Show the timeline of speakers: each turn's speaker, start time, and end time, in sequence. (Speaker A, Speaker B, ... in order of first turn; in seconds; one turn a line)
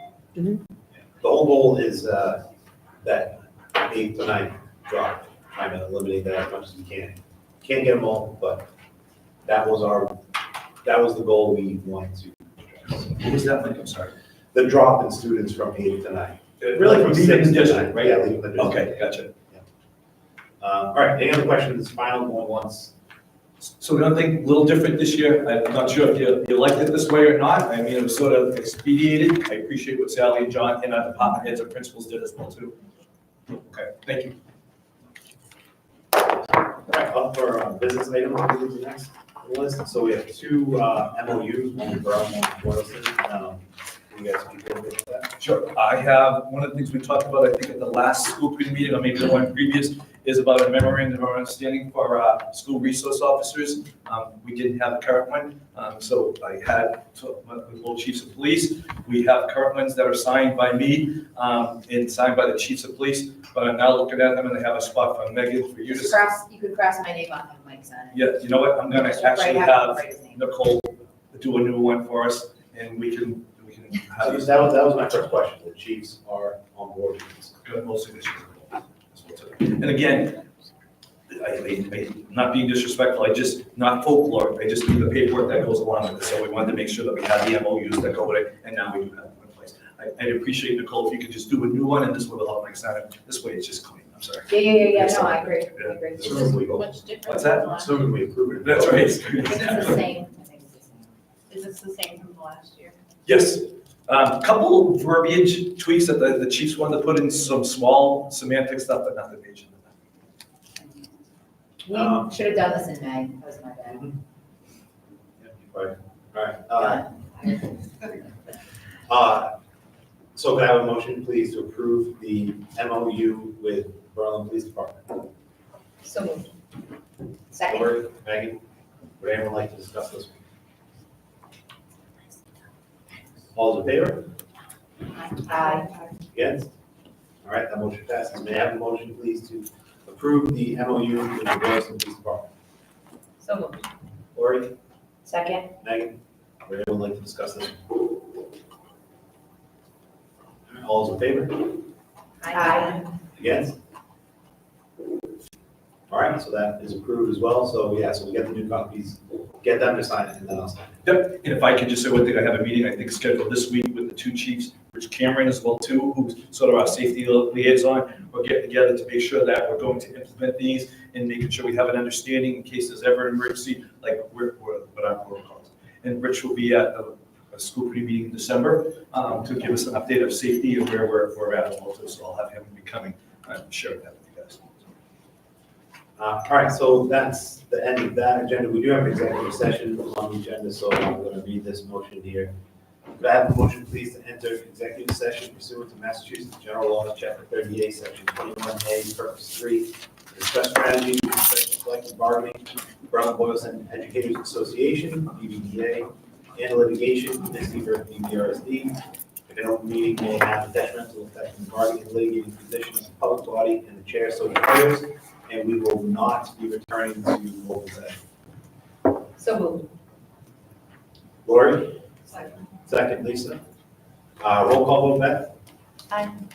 Speaker A: 0.9-2.5
Speaker A: 3.0-8.7
Speaker A: 9.5-10.2
Speaker A: 10.8-13.2
Speaker B: 13.2-14.1
Speaker A: 14.5-19.0
Speaker B: 16.6-19.3
Speaker A: 20.6-22.9
Speaker B: 23.6-32.8
Speaker B: 33.7-34.4
Speaker A: 36.6-45.3
Speaker B: 45.4-66.2
Speaker C: 65.9-68.2
Speaker B: 68.1-74.7
Speaker C: 68.9-70.4
Speaker A: 74.2-77.5
Speaker B: 77.6-80.5
Speaker B: 81.3-96.6
Speaker C: 94.5-96.6
Speaker A: 96.2-96.9
Speaker D: 96.6-98.0
Speaker B: 97.3-97.7
Speaker A: 97.6-99.2
Speaker B: 98.6-100.0
Speaker C: 99.4-101.1
Speaker D: 101.5-103.0
Speaker B: 103.3-109.9
Speaker C: 111.8-114.1
Speaker A: 111.9-112.3
Speaker A: 113.9-114.1
Speaker A: 115.4-117.0
Speaker C: 116.8-117.7
Speaker A: 119.1-119.5
Speaker A: 120.4-125.3
Speaker C: 126.0-126.5
Speaker C: 127.5-128.0
Speaker A: 127.7-128.6
Speaker A: 129.2-130.3
Speaker A: 133.6-134.3
Speaker C: 135.2-135.9
Speaker A: 136.3-136.7
Speaker A: 137.4-142.5
Speaker C: 143.4-143.8
Speaker A: 144.3-144.7
Speaker C: 145.3-145.7
Speaker A: 145.8-148.2
Speaker A: 150.7-151.8
Speaker C: 152.4-153.1
Speaker D: 152.5-153.0
Speaker A: 153.4-153.8
Speaker A: 156.1-160.9
Speaker B: 161.1-184.8
Speaker A: 186.2-192.5
Speaker A: 193.2-208.9
Speaker A: 209.5-218.2
Speaker C: 219.4-219.9
Speaker A: 221.4-222.0
Speaker A: 222.8-223.6
Speaker A: 224.4-225.5
Speaker C: 226.1-226.4